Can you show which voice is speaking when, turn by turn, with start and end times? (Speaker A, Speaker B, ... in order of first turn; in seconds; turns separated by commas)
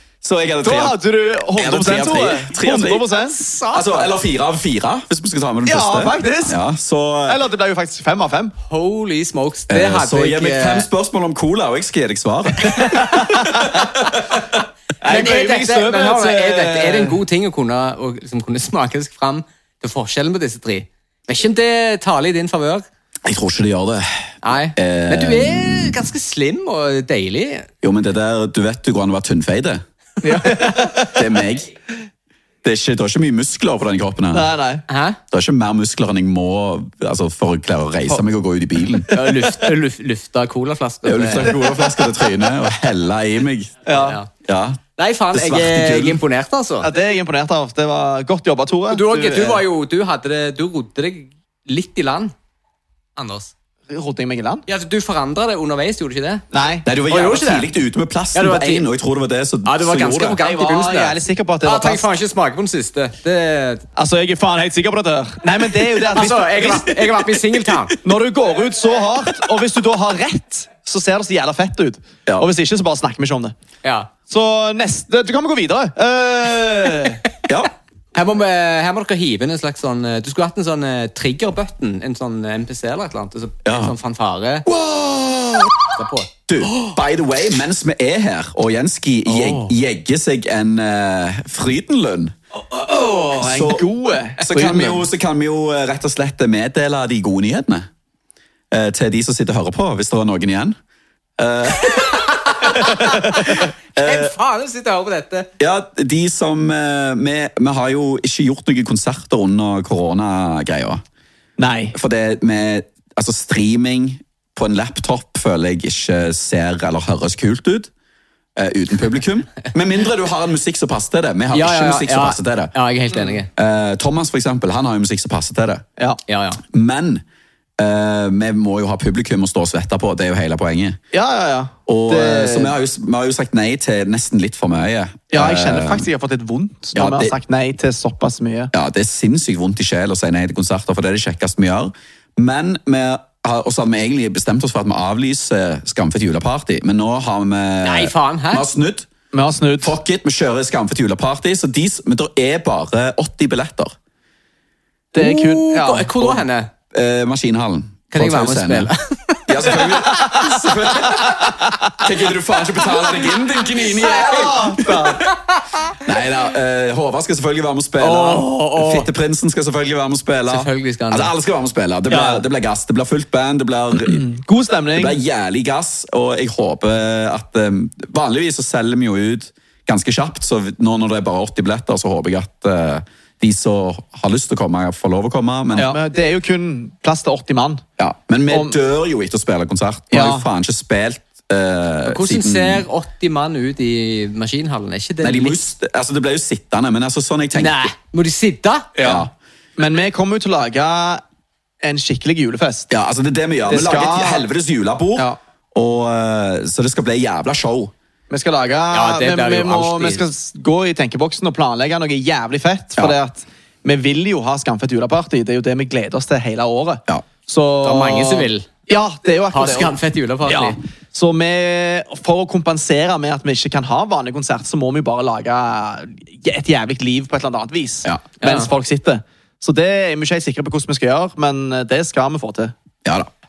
Speaker A: 0.2-1.0, Speaker B: 0.6-3.4, Speaker A: 1.6-3.0, Speaker C: 3.1-4.1, Speaker A: 3.7-7.4, Speaker B: 5.7-6.6, Speaker B: 7.3-8.5, Speaker C: 8.7-10.9, Speaker A: 9.7-14.4, Speaker B: 12.8-14.1, Speaker B: 15.0-17.2, Speaker C: 15.1-22.9, Speaker A: 23.2-26.0, Speaker C: 24.4-27.7, Speaker A: 27.8-29.8, Speaker B: 30.2-31.2, Speaker A: 31.1-31.7, Speaker A: 32.6-34.5, Speaker B: 34.3-34.8, Speaker C: 34.9-35.2, Speaker A: 35.3-39.2, Speaker B: 39.1-39.6, Speaker C: 39.1-41.6, Speaker A: 41.0-43.8, Speaker B: 43.9-44.2, Speaker C: 43.9-44.3, Speaker A: 44.4-44.8, Speaker C: 45.0-46.9, Speaker A: 45.3-46.2, Speaker B: 46.8-49.6, Speaker C: 48.9-52.3, Speaker C: 53.2-53.5, Speaker B: 53.9-54.6, Speaker C: 54.7-56.5, Speaker B: 56.5-56.9, Speaker A: 56.9-60.4, Speaker C: 57.1-57.7, Speaker C: 58.3-58.9, Speaker C: 59.6-63.9, Speaker B: 60.4-62.1, Speaker B: 64.0-67.2, Speaker C: 65.8-68.0, Speaker B: 68.0-73.5, Speaker C: 73.8-74.1, Speaker B: 74.3-77.2, Speaker A: 77.5-77.7, Speaker C: 78.1-84.7, Speaker A: 83.7-84.0, Speaker A: 84.7-85.9, Speaker C: 85.9-86.3, Speaker A: 86.5-92.3, Speaker C: 89.3-89.7, Speaker B: 92.5-95.1, Speaker A: 93.4-97.9, Speaker A: 98.7-100.8, Speaker A: 101.4-104.3, Speaker C: 101.9-105.5, Speaker B: 103.0-103.6, Speaker A: 105.6-111.0, Speaker B: 111.6-112.0, Speaker A: 111.9-117.9, Speaker A: 118.6-122.7, Speaker C: 121.5-123.5, Speaker A: 123.5-125.8, Speaker C: 126.3-126.6, Speaker A: 126.6-127.2, Speaker A: 127.8-131.0, Speaker B: 131.1-132.8, Speaker A: 131.9-136.1, Speaker B: 135.3-138.7, Speaker A: 136.9-137.3, Speaker A: 138.7-149.1, Speaker C: 147.8-148.7, Speaker B: 149.3-150.0, Speaker A: 149.8-154.0, Speaker B: 155.1-156.4, Speaker C: 155.2-156.7, Speaker A: 156.9-158.9, Speaker C: 158.1-160.3, Speaker A: 159.5-165.2, Speaker B: 159.8-162.0, Speaker C: 164.0-164.5, Speaker B: 164.1-165.2, Speaker C: 165.3-165.8, Speaker A: 166.0-174.2, Speaker C: 168.0-169.1, Speaker C: 170.5-171.3, Speaker B: 172.1-172.4, Speaker B: 174.0-175.2, Speaker A: 174.9-186.0, Speaker B: 185.8-187.8, Speaker A: 188.0-192.9, Speaker B: 188.5-188.8, Speaker B: 190.1-190.5, Speaker C: 192.1-195.6, Speaker A: 195.2-197.9, Speaker C: 197.6-198.9, Speaker B: 199.0-201.2, Speaker A: 199.0-199.3, Speaker B: 201.8-202.9, Speaker A: 202.9-207.9, Speaker B: 203.7-204.5, Speaker B: 208.3-232.7, Speaker C: 208.9-210.2, Speaker C: 217.8-218.7, Speaker C: 219.5-220.8, Speaker C: 228.4-228.7